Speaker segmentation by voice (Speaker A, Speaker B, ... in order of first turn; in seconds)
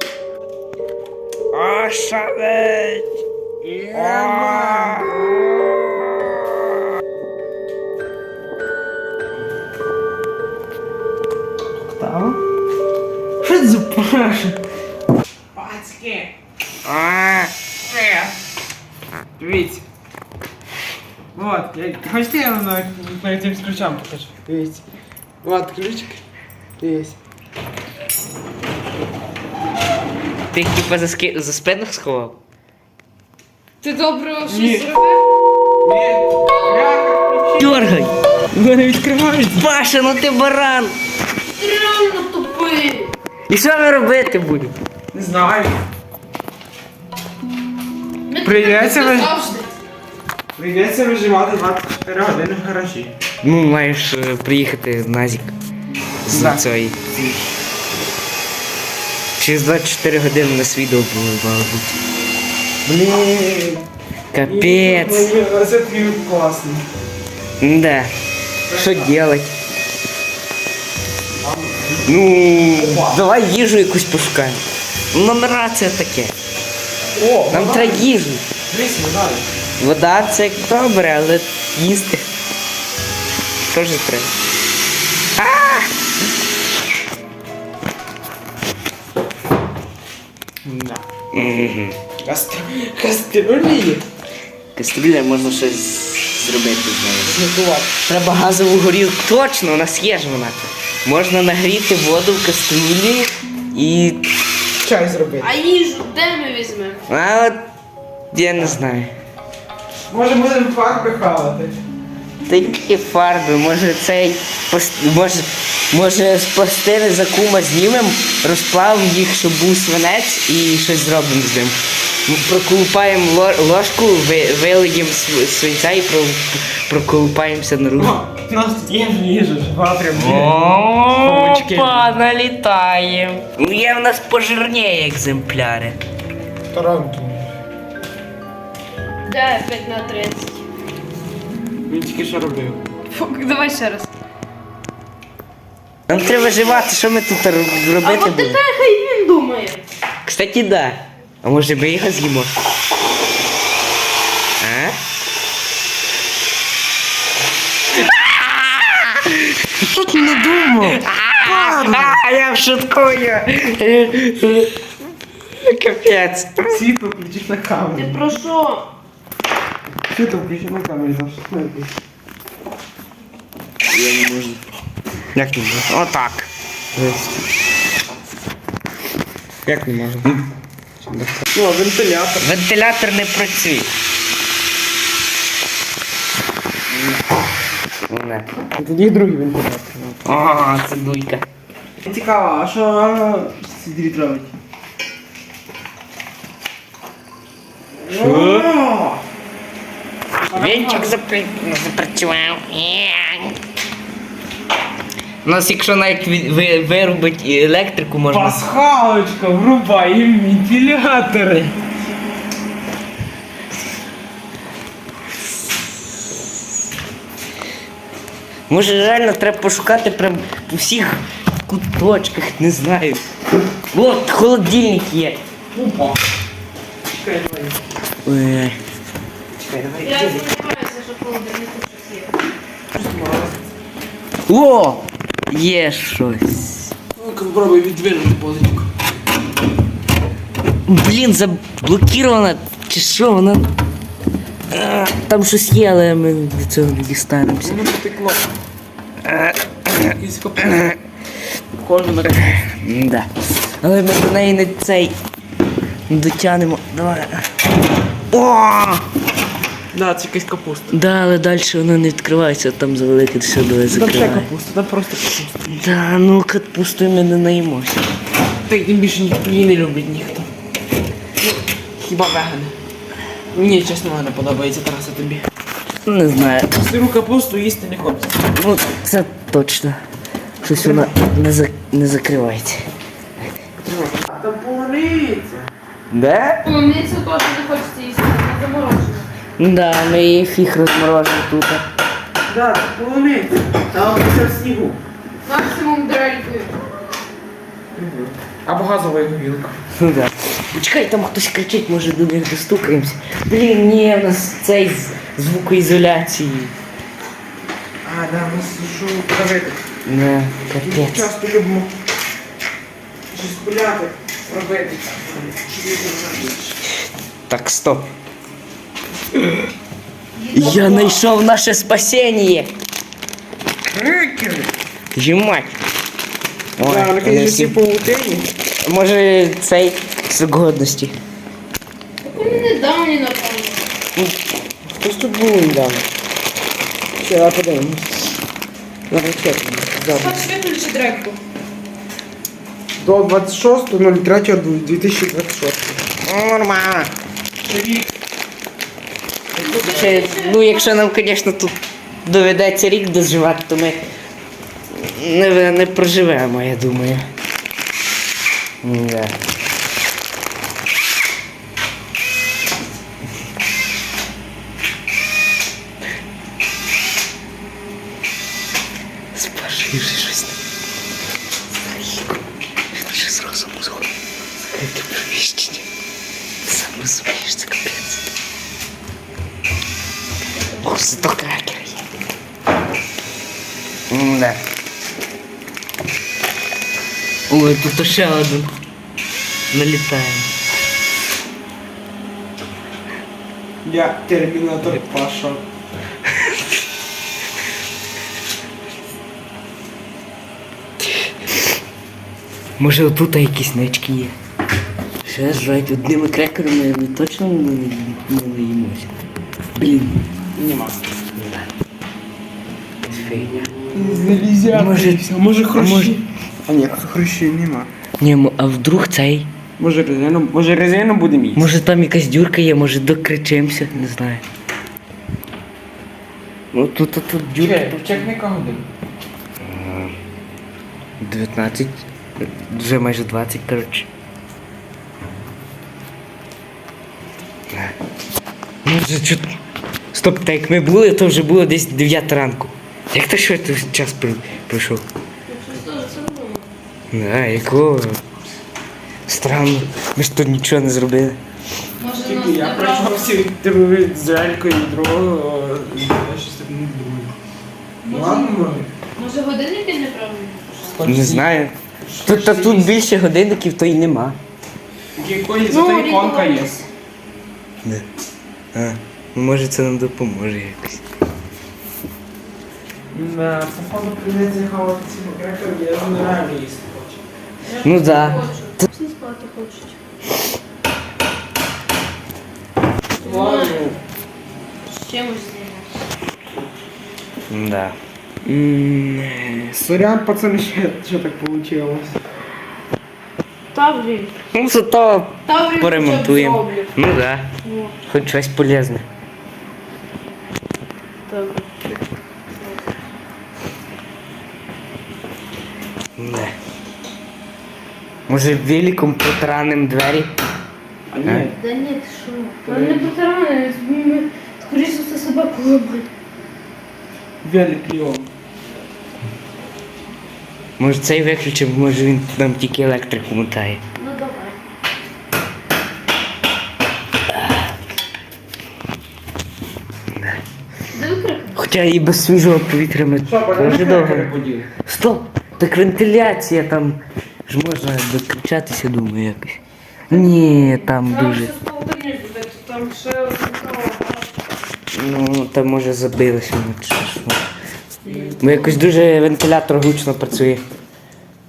Speaker A: 1.5-3.1, 3.6-6.8, 12.0-12.3, 13.4-14.6, 16.9-17.5, 30.5-32.4, 37.6-38.1, 39.6-41.0, 43.5-44.8, 53.4-55.5, 56.2-57.0, 59.4-62.0, 64.3-65.3, 67.6-68.1, 68.7-69.5, 72.0-76.3, 77.5-78.4, 79.8-82.2, 83.7-84.3, 85.4-85.9, 91.3-92.0, 94.8-97.4, 98.1-104.2, 107.1-107.6, 108.3-109.1, 112.5-128.2, 130.2-136.0, 146.1-148.6, 150.2-152.6, 154.6-155.0, 157.9-164.8, 165.6-166.8, 175.3-177.3, 182.4-183.9, 188.1-188.5, 190.2-191.4, 198.1-198.7, 200.5-203.6, 205.4-208.6, 218.7-223.3, 223.9-225.4, 228.2-228.8, 230.0-230.3, 234.5-236.9, 240.9-243.7, 244.7-247.9, 249.2-251.0, 252.3-255.2, 256.1-257.5, 258.3-259.1, 260.9-264.5, 265.7-268.1, 276.1-276.7, 278.5-280.0, 280.6-282.9, 286.1-286.6, 289.6-291.9, 299.9-306.7, 310.1-311.2, 317.5-318.1, 320.5-322.7, 325.1-325.8, 326.8-327.8, 328.8-331.2, 346.2-347.1, 349.6-354.0, 354.9-357.3, 358.8-359.4, 369.3-370.6, 371.7-372.4, 372.9-375.9, 376.6-378.2, 380.8-382.1, 384.1-384.6, 387.5-388.7, 389.7-390.5, 396.3-396.6, 402.8-404.4, 405.2-409.1, 409.7-410.2, 411.4-411.7, 413.0-413.7, 414.7-416.2, 418.2-419.5, 421.6-424.4, 426.7-428.3, 429.6-430.2, 431.2-434.1, 437.7-438.0, 438.9-439.6, 440.1-445.0, 447.1-448.2, 449.3-451.4, 461.1-461.8, 462.3-464.4, 468.7-471.0, 477.8-478.8, 487.5-488.0, 488.6-489.7, 494.5-497.5, 498.1-499.1, 506.2-506.6, 508.3-510.3, 520.8-523.8, 527.3-527.7, 530.1-530.4, 531.6-534.3, 534.8-541.5, 544.9-547.4, 548.4-550.6
Speaker B: 3.9-5.2, 15.6-16.3, 17.9-18.3, 19.4-19.8, 21.4-24.8, 25.4-26.2, 26.8-27.2, 34.5-34.9, 35.8-37.8, 38.5-39.7, 45.1-45.8, 48.4-49.4, 50.6-53.1, 56.3-57.5, 62.9-63.8, 64.5-66.9, 68.7-69.1, 71.4-72.1, 72.8-73.2, 77.2-78.1, 78.7-79.5, 90.6-91.0, 92.2-94.0, 97.2-97.9, 104.8-105.5, 110.1-111.8, 128.0-130.6, 131.1-132.1, 136.7-137.5, 141.9-142.8, 159.9-162.2, 166.7-168.2, 170.1-171.9, 173.9-174.6, 179.7-180.3, 181.1-182.5, 186.9-187.2, 188.7-190.2, 192.0-194.5, 198.0-199.2, 200.5-201.1, 208.3-211.8, 225.7-226.2, 227.1-227.8, 229.7-230.3, 232.9-233.6, 237.2-238.9, 247.6-248.5, 249.9-251.0, 251.8-252.6, 259.9-261.0, 263.9-265.7, 268.7-270.5, 271.4-272.7, 273.5-275.5, 276.7-278.5, 280.6-281.1, 283.8-285.7, 292.5-295.0, 297.9-299.8, 308.0-309.8, 310.8-311.9, 313.3-316.8, 320.6-321.0, 323.9-324.7, 326.8-328.5, 334.9-336.1, 337.2-338.3, 339.1-340.4, 343.0-346.0, 347.7-348.1, 349.5-350.2, 393.9-395.6, 410.6-411.0, 413.9-417.9, 419.8-421.7, 427.6-428.9, 452.2-457.3, 458.1-458.9, 460.9-461.4, 462.1-463.0, 465.2-466.9, 473.1-477.2, 483.2-484.0, 488.5-492.2, 511.1-511.6, 512.6-513.1, 517.4-518.3, 533.2-534.7, 548.1-548.4
Speaker C: 33.8-35.2, 41.5-43.1, 48.3-49.7, 105.4-107.0, 139.3-140.6, 143.1-144.1, 146.1-146.9, 148.0-149.8, 167.9-168.9, 230.0-232.3, 286.6-289.3, 295.4-296.8, 320.4-321.1, 332.2-333.8, 340.1-341.4, 349.6-351.0, 380.5-381.2, 445.5-446.7, 452.0-453.4, 458.0-461.0, 465.7-466.7, 477.7-480.0, 483.2-483.9, 484.9-486.1, 493.7-494.3, 495.5-496.9, 497.6-497.9, 501.3-502.0, 502.6-502.9, 511.6-516.1, 524.0-524.6, 530.9-531.7, 540.1-544.3, 548.0-548.7